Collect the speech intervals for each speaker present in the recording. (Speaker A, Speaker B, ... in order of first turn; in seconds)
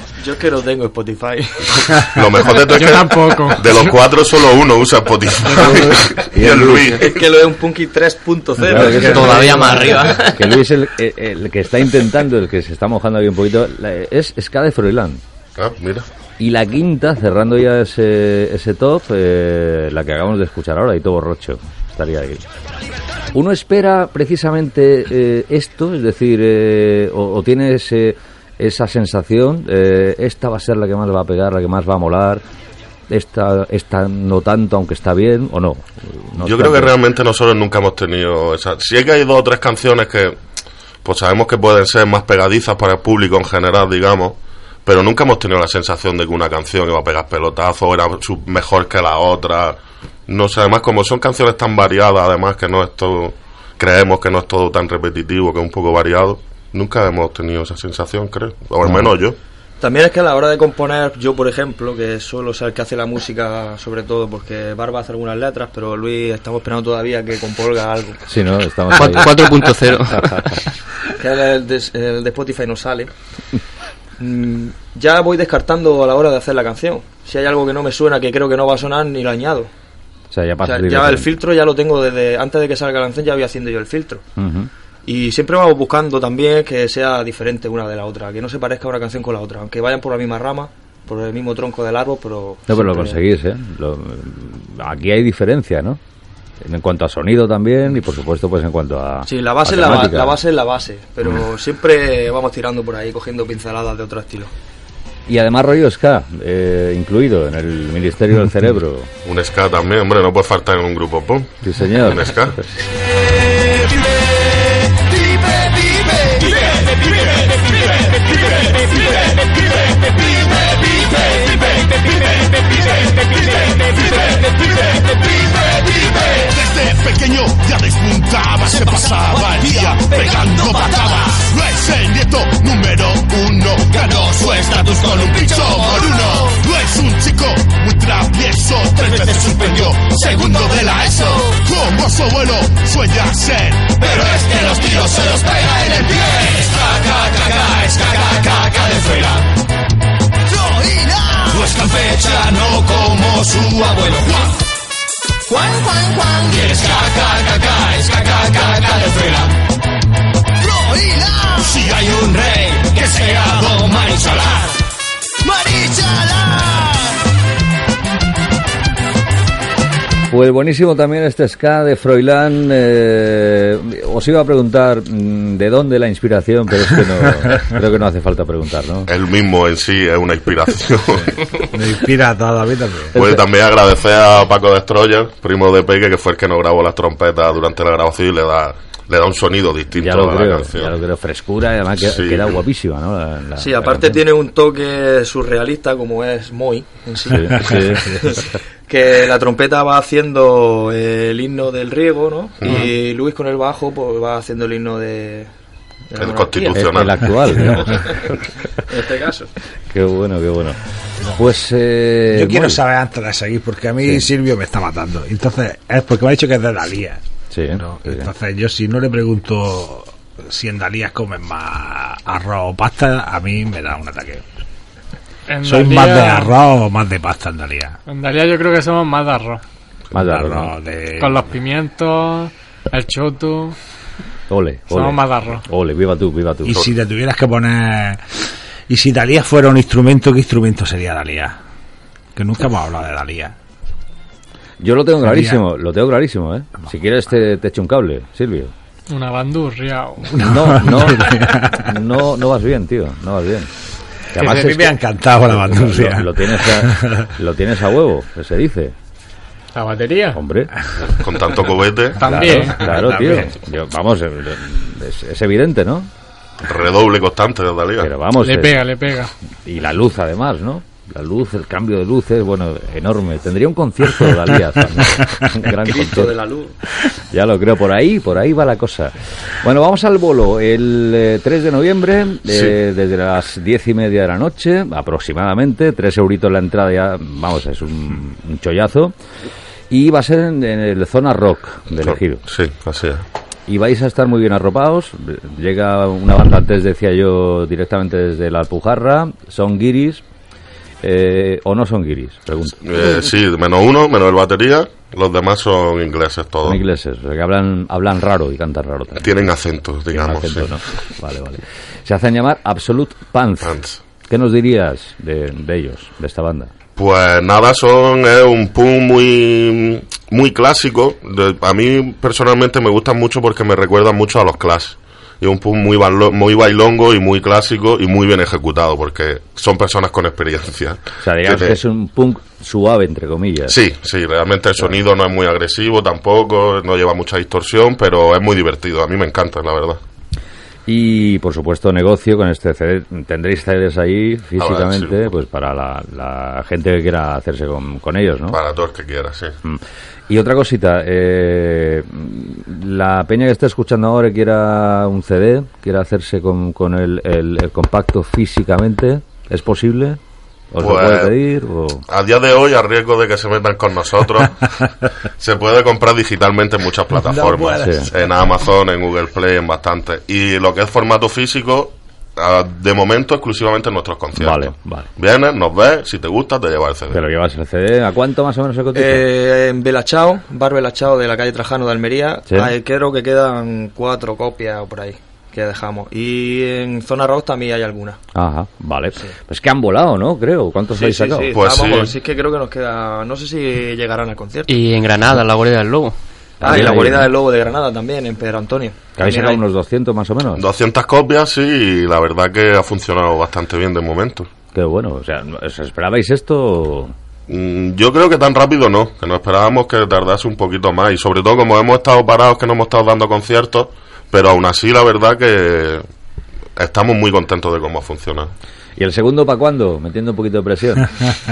Speaker A: 0.2-2.2, 6.9-10.2, 59.8-68.2, 71.2-73.1, 74.2-79.7, 80.6-84.2, 85.0-93.2, 99.3-104.5, 193.6-205.5, 206.1-209.5, 275.6-276.8, 378.9-388.2, 390.9-394.7, 396.6-399.6
Speaker B: 1.9-7.2, 15.6-16.1, 36.4-40.4, 41.0-59.4, 109.2-112.6, 179.1-181.5, 183.2-190.9, 192.0-192.6, 202.6-202.9, 206.2-207.8, 261.0-262.2, 266.6-268.1, 292.1-293.2, 302.8-306.8, 309.2-310.8, 313.6-314.0, 317.0-331.8, 333.7-340.0, 344.6-345.2, 348.5-349.6, 360.8-361.3, 362.1-364.7, 365.4-377.2, 391.5-392.1, 400.6-404.5, 407.5-416.1, 416.8-418.5
Speaker C: 2.6-3.9, 225.5-226.6, 228.1-229.6, 231.2-233.8, 234.9-235.7, 249.1-250.6, 259.7-260.4, 262.2-263.3, 268.4-269.3
Speaker D: 5.5-7.0, 8.6-15.2, 16.4-22.4, 23.3-32.4, 33.1-37.0, 58.8-59.1, 68.3-70.5, 80.3-81.3, 84.4-84.7, 92.7-96.0, 96.6-100.4, 105.3-109.1, 111.6-112.9, 170.3-179.1, 183.1-183.4, 189.9-194.2, 197.3-198.4, 206.8-208.2, 209.9-210.8, 211.3-212.8, 214.0-214.3, 217.5-218.3, 230.1-230.8, 234.5-236.8, 244.8-248.7, 250.3-253.7, 254.3-258.9, 260.3-260.7, 262.2-266.1, 268.0-268.8, 269.6-276.4, 277.2-289.1, 289.9-292.4, 293.7-300.2, 301.0-303.1, 306.6-309.4, 310.1-316.7, 331.2-333.8, 340.9-348.6, 349.6-360.2, 360.7-362.0, 367.8-368.1, 374.3-375.1, 377.1-379.2, 382.5-382.7, 388.3-391.5, 396.6-397.3, 399.2-400.6, 404.7-407.1, 419.0-421.2
Speaker E: 8.8-10.6, 68.9-70.7, 394.7-396.2
Speaker F: 115.4-119.5, 120.1-149.5, 151.3-154.5, 156.3-159.5, 161.4-164.7, 165.4-166.9
Speaker G: 181.6-183.2, 212.3-224.4, 225.6-228.0, 230.1-231.5, 236.7-241.6, 242.4-243.6, 245.3-245.6, 250.9-251.9, 254.3-257.3, 262.9-263.5, 367.2-368.4